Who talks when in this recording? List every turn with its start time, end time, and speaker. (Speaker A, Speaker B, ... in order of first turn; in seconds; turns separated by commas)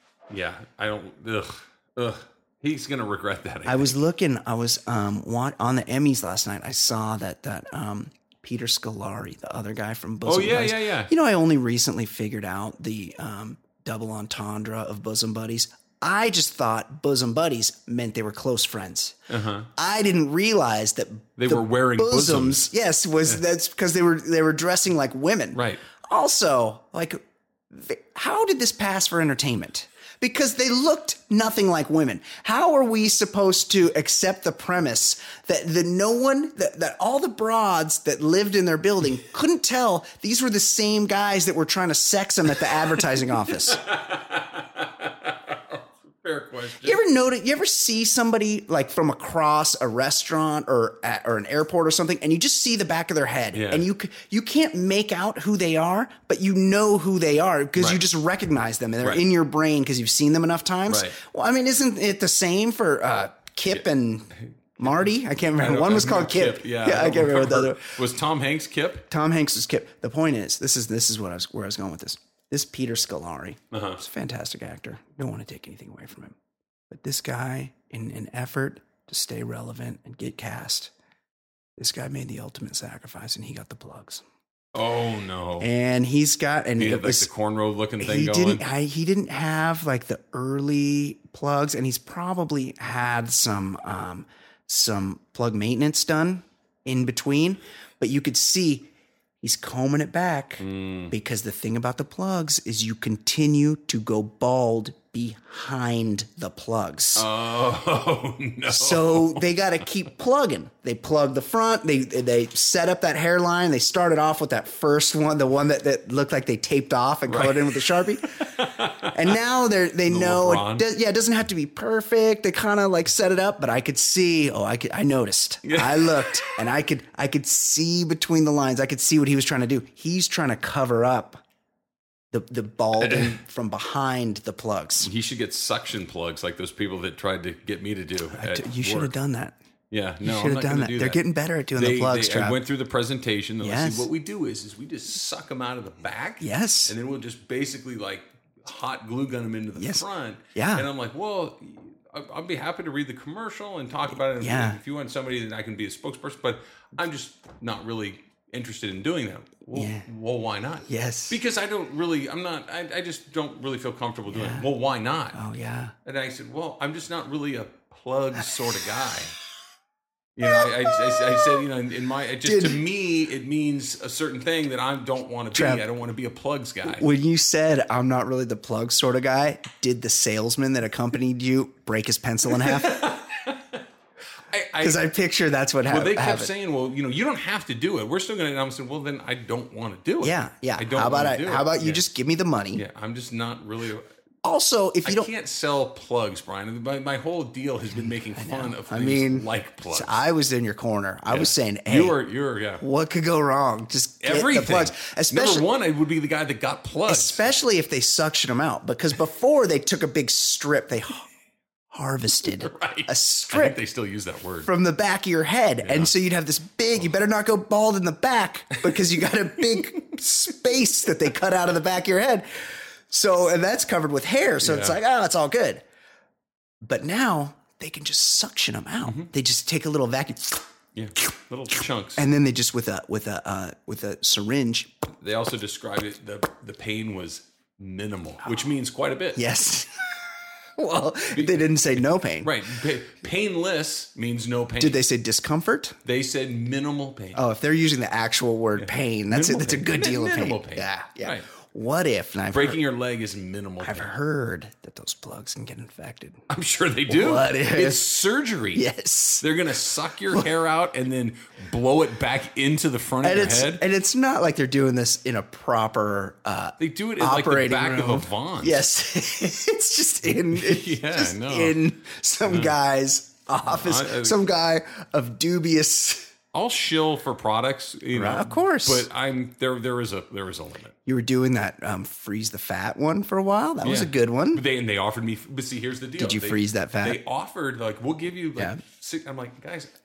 Speaker A: 0.3-4.0, Speaker B: 3.6-19.2, Speaker A: 10.2-11.1, Speaker A: 19.3-19.7, Speaker B: 19.8-43.8, Speaker A: 21.4-22.7, Speaker A: 25.5-25.8, Speaker A: 43.5-47.0, Speaker B: 46.8-68.0, Speaker A: 53.5-53.9, Speaker A: 60.9-61.2, Speaker A: 64.8-69.1, Speaker B: 69.1-76.3, Speaker A: 73.7-74.0, Speaker B: 76.9-80.9, Speaker B: 81.8-84.2, Speaker A: 84.7-85.7, Speaker B: 85.6-87.3, Speaker A: 86.8-88.6, Speaker B: 88.0-98.9, Speaker B: 99.4-107.3, Speaker A: 100.6-101.1, Speaker A: 107.2-109.5, Speaker B: 108.7-118.3, Speaker A: 117.3-119.3, Speaker B: 119.0-131.4, Speaker A: 120.0-120.8, Speaker A: 125.6-126.6, Speaker B: 132.3-135.1, Speaker A: 133.0-133.4, Speaker A: 135.0-139.1, Speaker B: 138.3-139.6, Speaker A: 139.9-141.2, Speaker B: 140.2-142.6, Speaker A: 141.7-165.4, Speaker B: 143.6-144.1, Speaker B: 146.4-146.9, Speaker B: 149.8-150.8, Speaker B: 154.4-154.8, Speaker B: 159.7-160.1, Speaker B: 160.8-161.4, Speaker B: 164.3-164.7, Speaker B: 165.3-165.9, Speaker A: 166.0-169.3, Speaker A: 170.3-177.1, Speaker B: 172.4-172.8, Speaker B: 175.5-175.8, Speaker B: 176.9-183.0, Speaker A: 182.6-183.8, Speaker A: 184.5-185.0, Speaker B: 184.8-186.5, Speaker A: 185.9-192.0, Speaker B: 190.2-192.8, Speaker A: 192.7-194.1, Speaker B: 194.4-195.3, Speaker A: 195.0-200.2, Speaker B: 198.3-202.2, Speaker A: 201.3-202.8, Speaker B: 202.8-205.6, Speaker A: 204.2-207.4, Speaker B: 207.1-211.3, Speaker B: 211.9-213.8, Speaker A: 212.6-214.7, Speaker B: 214.6-222.4, Speaker A: 215.8-216.1, Speaker A: 218.8-219.1, Speaker A: 219.7-220.1, Speaker B: 223.1-225.8, Speaker A: 224.6-224.9, Speaker B: 226.8-230.7, Speaker A: 229.0-229.3, Speaker A: 230.9-232.2, Speaker B: 232.2-235.1, Speaker A: 235.2-239.4, Speaker B: 239.3-242.6, Speaker A: 241.3-241.7, Speaker A: 242.4-245.0, Speaker B: 244.8-245.9, Speaker A: 246.0-247.4, Speaker B: 247.3-252.8, Speaker A: 248.8-251.5, Speaker A: 252.5-254.1, Speaker B: 253.8-256.4, Speaker A: 256.5-258.9, Speaker B: 257.1-258.2, Speaker B: 258.7-259.5, Speaker A: 259.4-263.8, Speaker B: 263.2-276.3, Speaker A: 266.8-268.8, Speaker A: 270.3-271.8, Speaker A: 272.5-272.8, Speaker A: 273.6-274.4, Speaker A: 276.5-280.9, Speaker B: 278.1-279.1, Speaker B: 281.1-284.6, Speaker A: 283.8-289.9, Speaker B: 286.2-287.2